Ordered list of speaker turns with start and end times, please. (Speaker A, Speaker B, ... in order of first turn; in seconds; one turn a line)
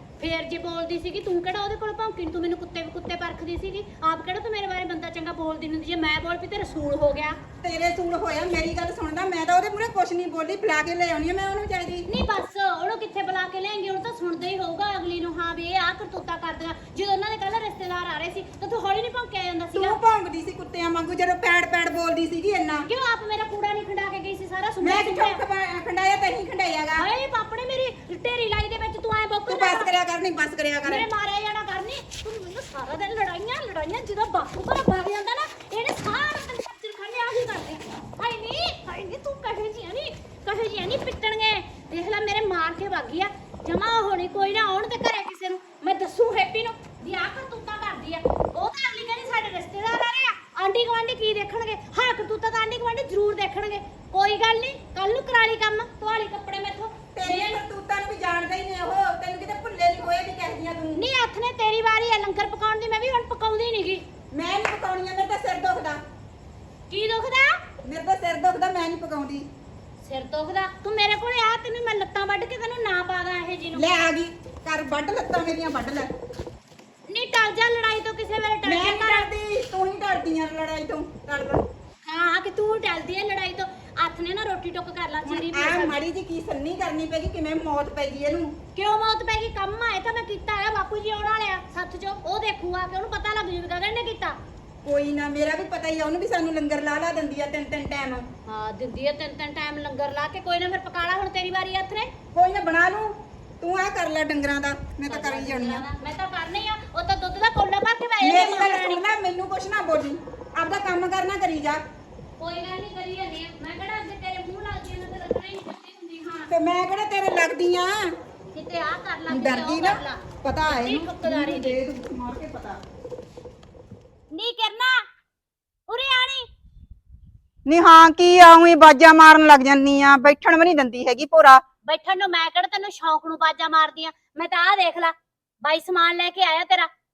Speaker A: 0.2-7.4
Speaker B: 7.6-12.1
Speaker A: 12.1-20.0
Speaker B: 19.8-22.9
Speaker A: 22.9-25.4
Speaker B: 24.8-27.1
Speaker A: 26.9-29.9
Speaker B: 29.5-31.1
Speaker A: 30.9-57.6
Speaker B: 57.1-61.0
Speaker A: 61.0-64.0
Speaker B: 64.3-66.0
Speaker A: 66.9-67.6
Speaker B: 67.8-69.5
Speaker A: 70.0-74.0
Speaker B: 73.8-76.1
Speaker A: 77.1-79.3
Speaker B: 78.6-81.7
Speaker A: 82.1-86.0
Speaker B: 85.2-88.5
Speaker A: 88.8-94.4
Speaker B: 94.8-98.3
Speaker A: 98.5-102.1
Speaker B: 102.3-105.8
Speaker A: 105.1-109.1
Speaker B: 108.2-111.8
Speaker A: 112.4-116.5
Speaker B: 116.5-118.1
Speaker A: 118.5-121.8
Speaker B: 119.3-122.8
Speaker A: 124.3-125.0
Speaker A: 125.9-126.5
Speaker B: 127.7-131.6
Speaker A: 131.9-135.1
Speaker A: 135.7-136.9